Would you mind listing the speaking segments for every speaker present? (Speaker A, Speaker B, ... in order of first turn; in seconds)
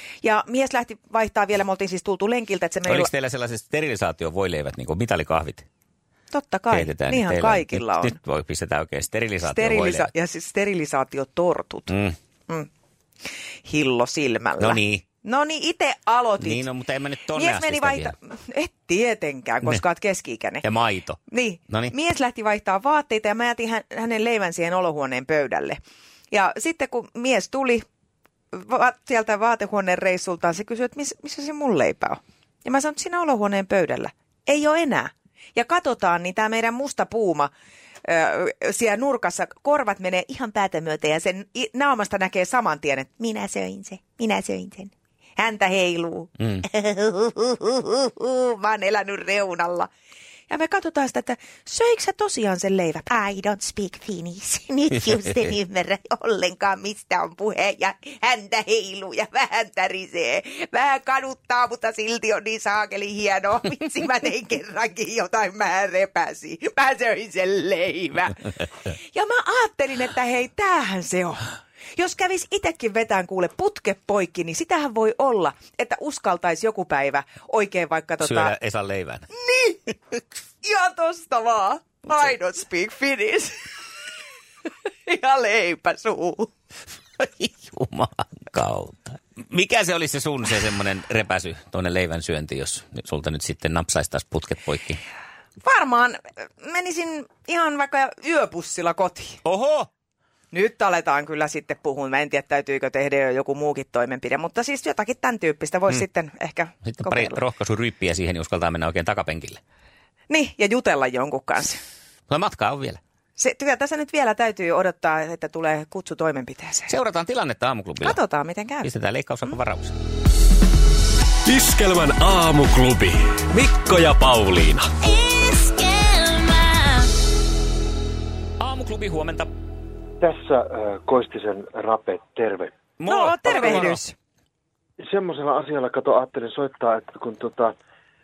Speaker A: 0.2-3.1, 6.3-8.2, 9.4-11.9, 13.6-16.7, 17.3-20.6, 21.3-25.8, 26.3-27.8, 28.5-37.5, 38.0-49.9, 50.5-78.5, 79.3-83.7, 85.0-86.5, 95.6-99.4, 100.5-107.4, 110.3-111.8, 113.4-116.9, 118.0-118.9, 133.1-134.2
Speaker B: 2.9-5.6, 6.7-10.1, 11.9-12.2, 14.6-15.0, 16.4-18.1, 20.6-21.9, 78.2-79.3, 87.2-95.0, 99.4-99.9, 106.8-109.6, 112.3-113.0, 116.9-118.2, 118.8-120.0, 128.6-129.5, 133.0-134.0
Speaker C: 121.5-124.9
Speaker D: 130.2-132.7, 135.0-137.7